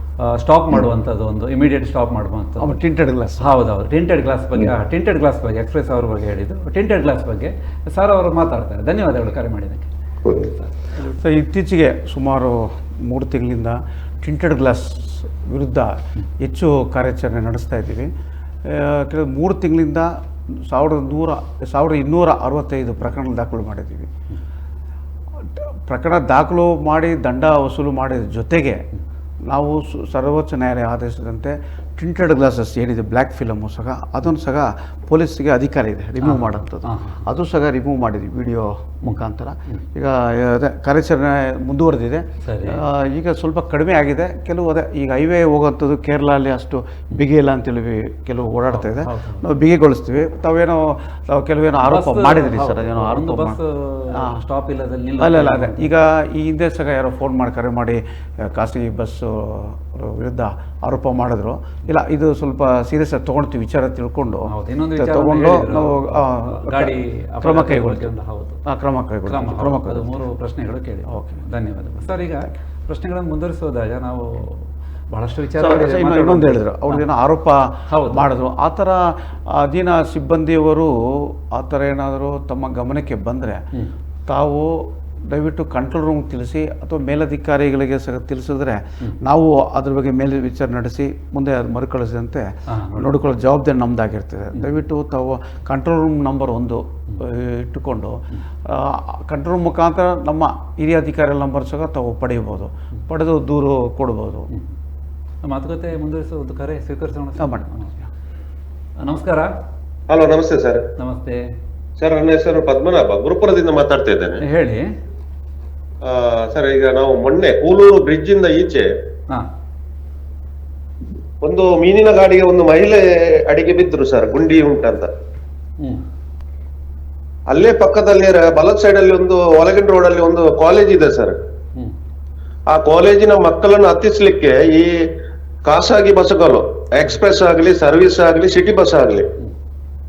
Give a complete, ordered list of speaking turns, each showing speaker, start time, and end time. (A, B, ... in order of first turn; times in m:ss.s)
0:00.4-0:02.8 A
0:02.6-0:03.5 B
0:03.4-0:09.9 A
0:10.4-0:10.7 A
0:11.0-0:18.1 B
0:18.7-0:20.1 B
0:20.7-0:24.1 B
0:25.9-0:28.8 B
0:29.5-0:53.6 B
0:36.2-0:37.2 A
0:42.4-0:42.8 A
0:48.7-0:49.4 A
0:51.8-0:55.9 A
0:54.1-0:54.4 B
0:55.2-1:08.1 B
1:04.5-1:08.6 A
1:08.7-1:10.1 B
1:09.3-1:14.6 A
1:11.1-1:11.4 B
1:15.1-1:17.0 A
1:15.6-1:23.6 B
1:17.9-1:18.3 A
1:24.3-1:44.5 B
1:32.7-1:33.1 A
1:45.4-1:47.9 A
1:47.4-1:47.9 B
1:49.0-1:49.5 A
1:50.1-1:50.8 C
1:51.0-1:51.4 A
1:52.0-1:54.4 C
1:54.4-1:54.8 A
1:56.0-1:58.9 C
2:01.4-2:05.1 C
2:07.5-2:11.4 C
2:12.7-2:14.9 C
2:15.6-2:19.2 C